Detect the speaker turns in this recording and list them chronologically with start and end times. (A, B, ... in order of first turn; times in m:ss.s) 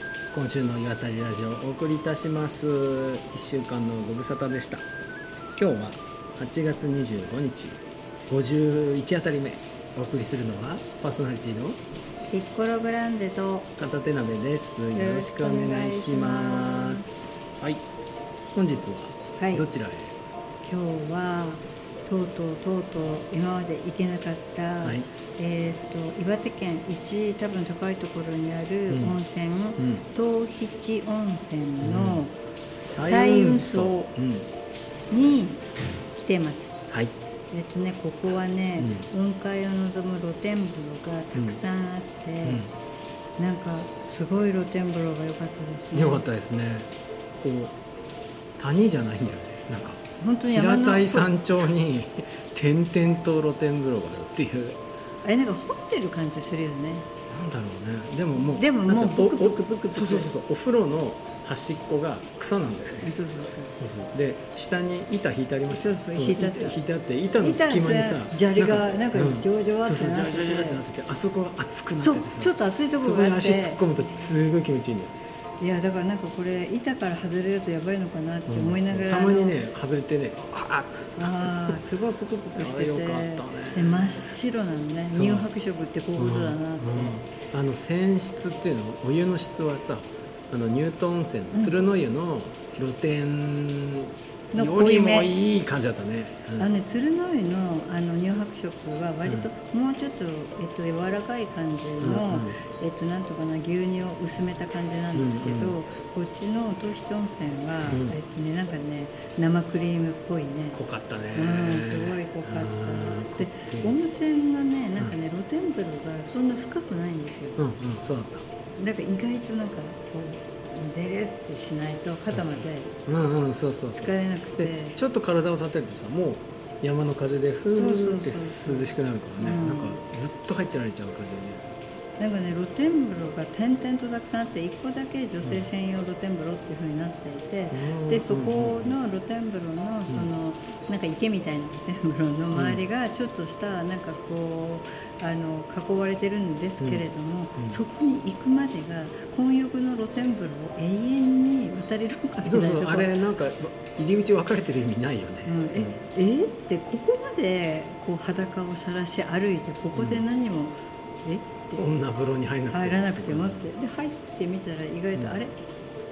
0:00.3-0:04.8 A
0:05.6-0:11.8 A
0:12.3-0:13.7 B
0:13.8-0:17.8 A
0:14.9-0:17.3 B
0:18.5-0:20.2 A
0:19.4-0:19.6 B
0:20.6-0:32.3 B
0:28.9-0:29.2 A
0:29.8-0:30.0 A
0:31.8-0:32.2 A
0:32.9-0:34.5 A
0:33.0-0:34.1 B
0:35.1-0:36.8 B
0:37.5-0:42.6 B
0:38.8-0:39.0 A
0:42.4-0:42.7 A
0:43.4-0:46.2 B
0:45.9-0:47.7 A
0:48.6-0:54.8 A
0:50.2-0:51.7 B
0:55.2-0:57.1 B
0:57.3-1:03.1 A
0:58.3-1:00.3 B
1:03.0-1:03.8 B
1:03.8-1:15.2 A
1:05.7-1:06.8 B
1:07.4-1:10.8 B
1:12.0-1:13.8 B
1:15.6-1:19.6 B
1:18.5-1:21.8 A
1:21.2-1:27.2 B
1:22.5-1:24.4 A
1:25.1-1:25.5 A
1:26.2-1:36.7 A
1:34.5-1:35.3 B
1:36.6-1:50.8 B
1:42.0-1:42.6 A
1:45.1-1:45.8 A
1:47.9-1:48.1 A
1:50.7-1:54.0 A
1:51.3-1:57.6 B
1:57.6-1:58.4 A
1:58.8-2:02.9 B
2:02.1-2:11.7 A
2:04.0-2:05.0 B
2:07.7-2:10.0 B
2:12.2-2:33.2 B
2:17.7-2:19.0 A
2:22.5-2:22.8 A
2:26.8-2:27.0 A
2:32.4-2:36.0 A
2:35.4-2:41.9 B
2:39.9-2:40.2 A
2:41.8-2:43.6 A
2:42.7-2:45.5 B